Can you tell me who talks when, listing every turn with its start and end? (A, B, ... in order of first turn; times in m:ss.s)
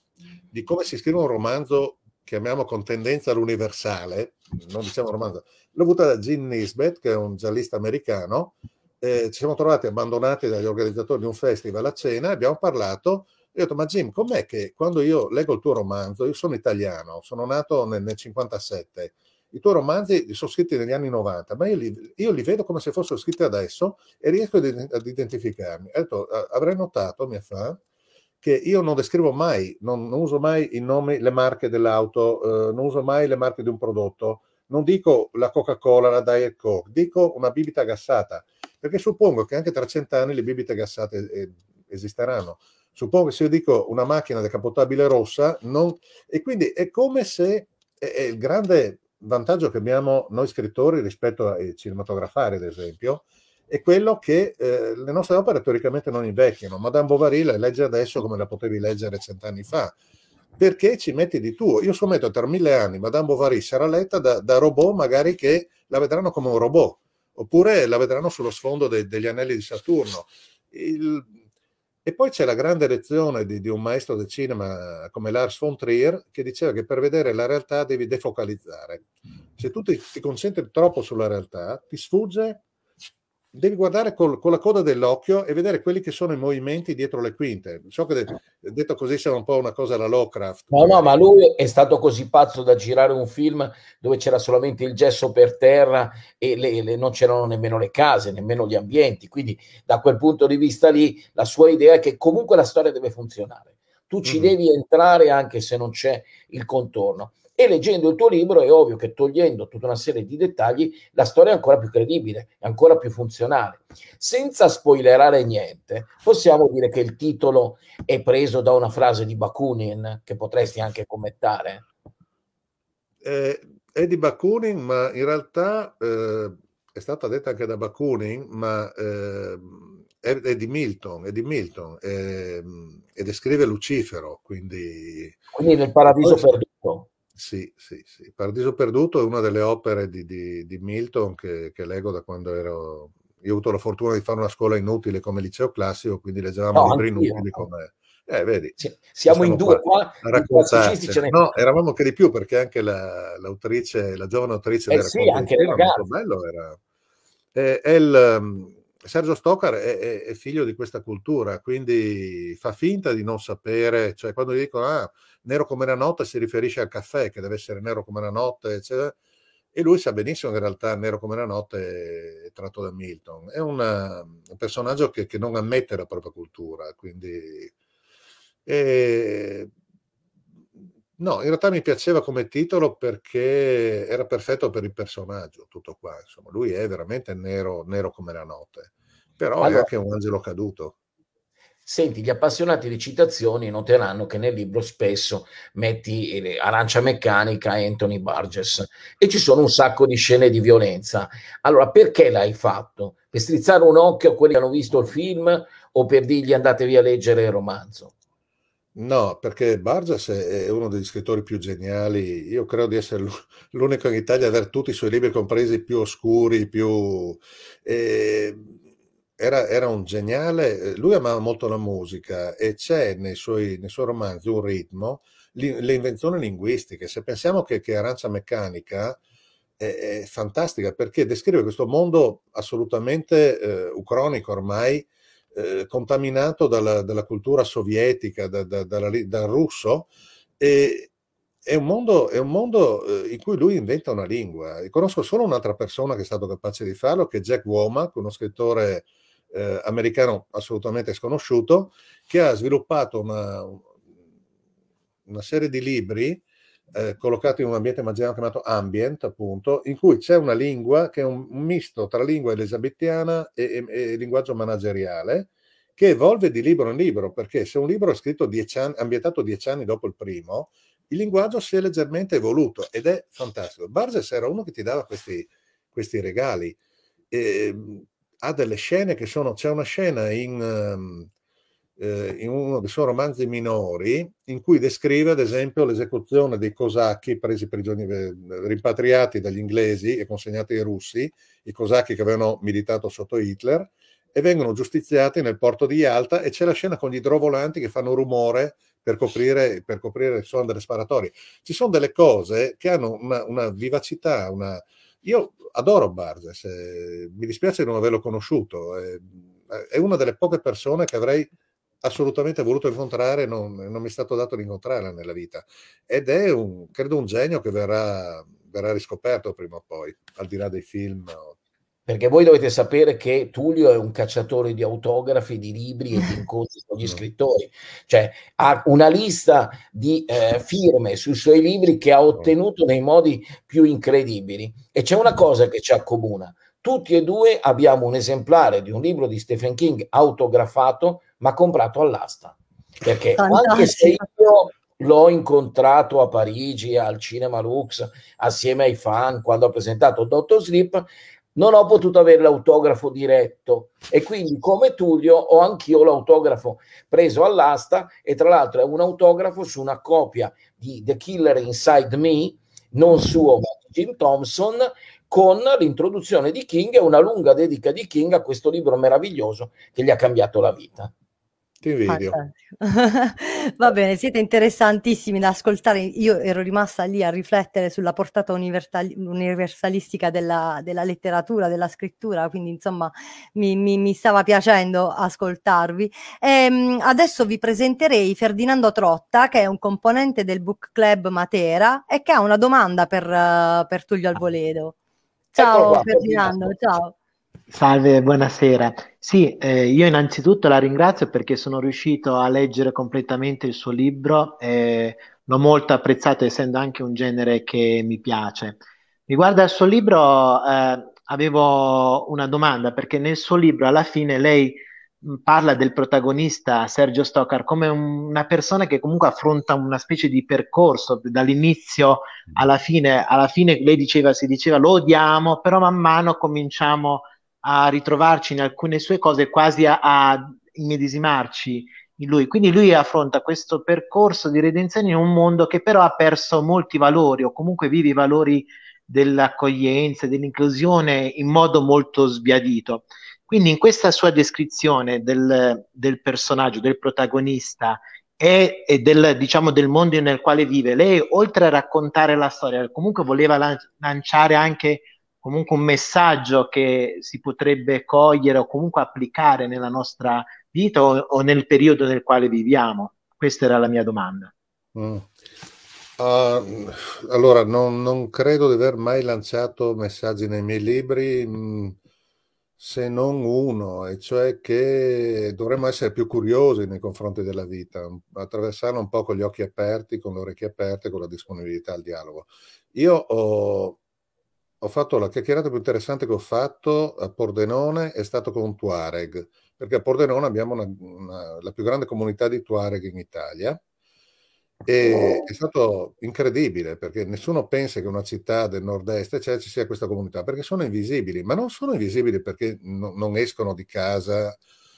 0:00.5-0:27.8 A
0:28.4-1:00.0 A
1:00.6-1:11.3 A
1:12.0-1:19.0 A
1:19.6-1:22.6 A
1:23.5-1:31.2 A
1:30.7-2:01.8 B
2:03.2-2:15.4 A
2:15.6-2:17.1 B
2:16.1-2:16.5 A
2:17.4-2:28.8 A
2:26.7-2:27.7 B
2:28.8-2:31.6 B
2:29.3-2:36.8 A
2:34.9-2:36.0 B
2:37.6-2:49.2 A
2:49.7-2:57.7 A
2:58.7-2:59.7 A
3:01.2-3:11.0 A
3:09.6-3:09.9 B
3:11.8-3:28.1 B
3:29.0-3:38.7 A
3:39.4-3:49.2 A
3:49.8-4:00.1 A
4:00.6-4:01.1 A
4:01.7-4:13.9 A
4:15.3-4:16.4 A
4:17.0-4:36.8 A
4:37.3-4:41.3 A
4:42.0-5:11.5 A
5:12.0-5:21.5 A
5:22.1-6:11.1 B
5:43.4-5:44.3 C
6:11.8-6:12.4 A
6:12.1-6:35.0 C
6:35.5-6:37.1 C
6:35.6-6:36.7 B
6:37.7-7:44.5 D
7:45.0-7:45.3 A
7:46.2-7:52.0 A
7:52.8-8:04.0 A
8:04.8-8:13.8 A
8:14.9-8:24.6 A